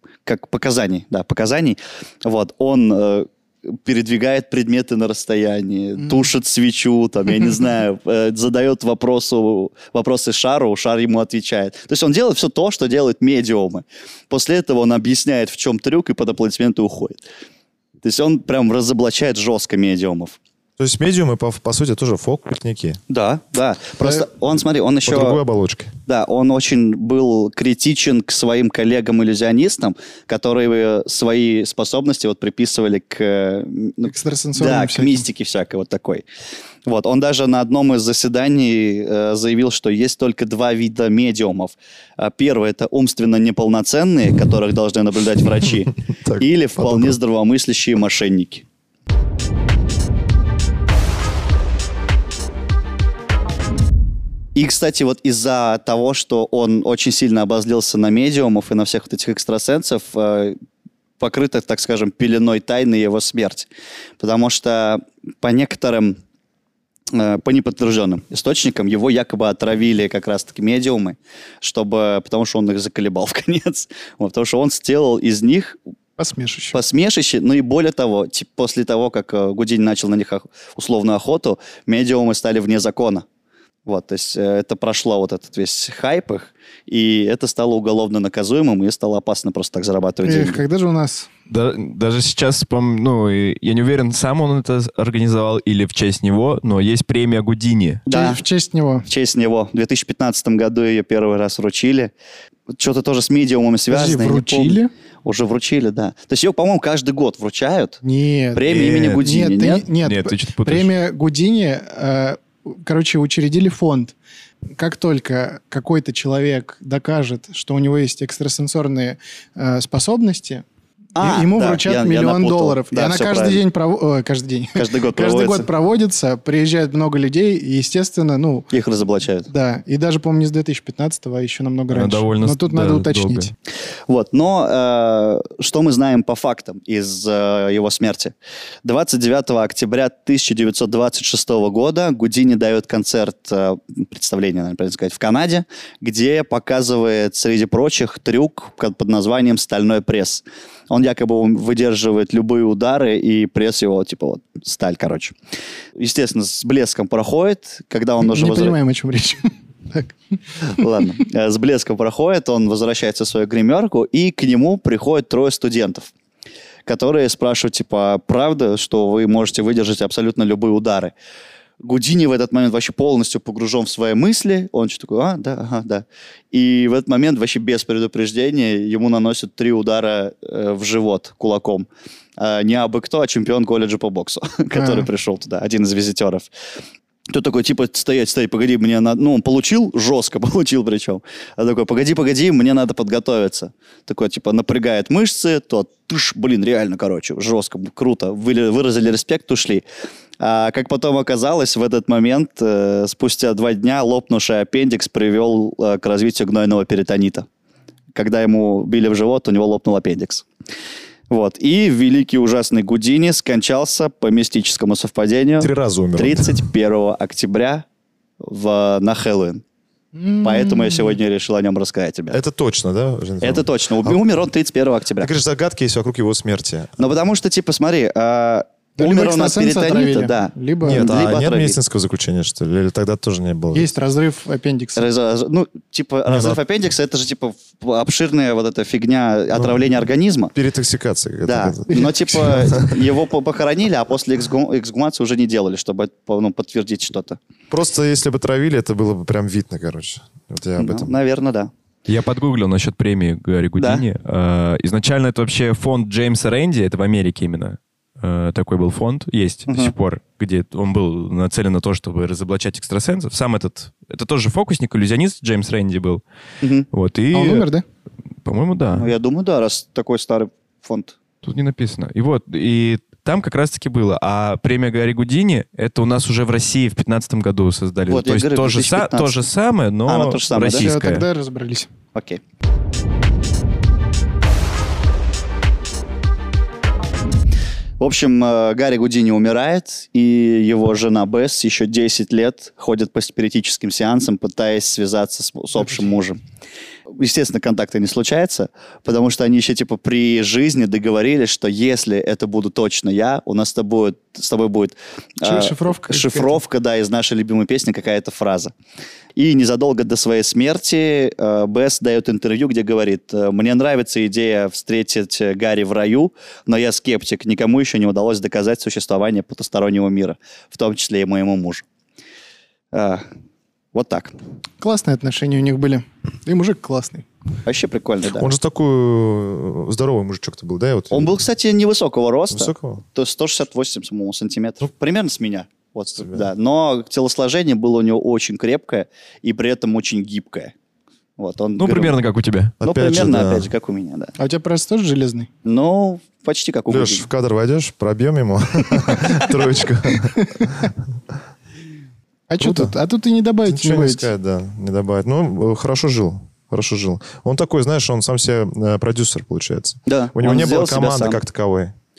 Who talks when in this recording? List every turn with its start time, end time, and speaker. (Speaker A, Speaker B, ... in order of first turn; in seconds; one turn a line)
Speaker A: 0.2-17.2
Speaker A: 18.0-20.4
Speaker B: 20.8-23.0
Speaker A: 23.1-25.4
Speaker B: 25.1-25.9
Speaker A: 26.1-36.2
Speaker C: 34.1-35.2
Speaker A: 36.9-48.7
Speaker B: 46.2-47.2
Speaker A: 54.5-60.6
Speaker A: 61.2-63.7
Speaker A: 64.2-66.2
Speaker A: 67.1-75.8
Speaker C: 76.2-76.8
Speaker A: 76.7-83.2
Speaker A: 83.9-90.6
Speaker C: 90.3-91.3
Speaker D: 91.5-98.0
Speaker A: 98.1-98.4
Speaker C: 98.1-99.1
Speaker A: 99.1-102.1
Speaker A: 102.7-108.0
Speaker C: 103.9-104.9
Speaker C: 108.0-114.1
Speaker A: 108.5-109.9
Speaker D: 108.7-109.2
Speaker D: 110.0-110.9
Speaker C: 114.8-120.6
Speaker A: 121.2-123.6
Speaker C: 121.2-128.7
Speaker A: 124.8-125.7
Speaker A: 128.7-129.5
Speaker C: 129.5-133.5
Speaker D: 131.9-133.5
Speaker A: 134.1-155.3
Speaker A: 156.0-158.8
Speaker C: 158.3-160.9
Speaker A: 160.7-166.1
Speaker A: 166.9-171.1
Speaker A: 171.8-186.5
Speaker C: 184.8-185.1
Speaker A: 187.3-199.8
Speaker A: 200.4-207.5
Speaker A: 208.1-210.5
Speaker A: 211.3-217.9
Speaker B: 215.6-216.7
Speaker A: 218.4-219.6
Speaker C: 220.1-221.2
Speaker A: 220.4-222.4
Speaker B: 222.3-224.2
Speaker A: 223.4-225.3
Speaker B: 225.2-227.0
Speaker A: 227.0-231.8
Speaker C: 229.0-231.1
Speaker B: 230.8-233.9
Speaker C: 233.7-235.1
Speaker A: 235.0-240.5
Speaker B: 236.3-236.6
Speaker B: 240.5-242.9
Speaker A: 241.5-247.4
Speaker B: 247.7-251.2
Speaker A: 250.8-251.7
Speaker D: 252.1-266.2
Speaker A: 253.8-254.1
Speaker A: 259.7-259.9
Speaker A: 266.6-266.9
Speaker D: 266.9-267.7
Speaker C: 267.3-267.8
Speaker D: 268.4-269.1
Speaker A: 268.9-271.2
Speaker D: 271.4-281.2
Speaker A: 278.1-279.4
Speaker A: 280.1-280.9
Speaker C: 280.7-281.9
Speaker A: 282.1-282.4
Speaker A: 288.0-296.4
Speaker A: 297.1-308.7
Speaker C: 305.4-306.6
Speaker A: 309.4-321.9
Speaker A: 322.9-323.3
Speaker A: 323.9-324.3
Speaker C: 324.8-327.2
Speaker A: 327.6-328.5
Speaker B: 328.3-331.3
Speaker A: 331.1-340.7
Speaker B: 332.5-333.0
Speaker A: 341.4-342.2
Speaker D: 341.8-342.7
Speaker B: 342.8-343.7
Speaker A: 342.8-344.3
Speaker C: 344.4-345.5
Speaker A: 345.6-347.3
Speaker B: 346.9-351.0
Speaker C: 352.5-354.3
Speaker B: 352.6-353.0
Speaker B: 353.7-361.9
Speaker A: 360.1-361.4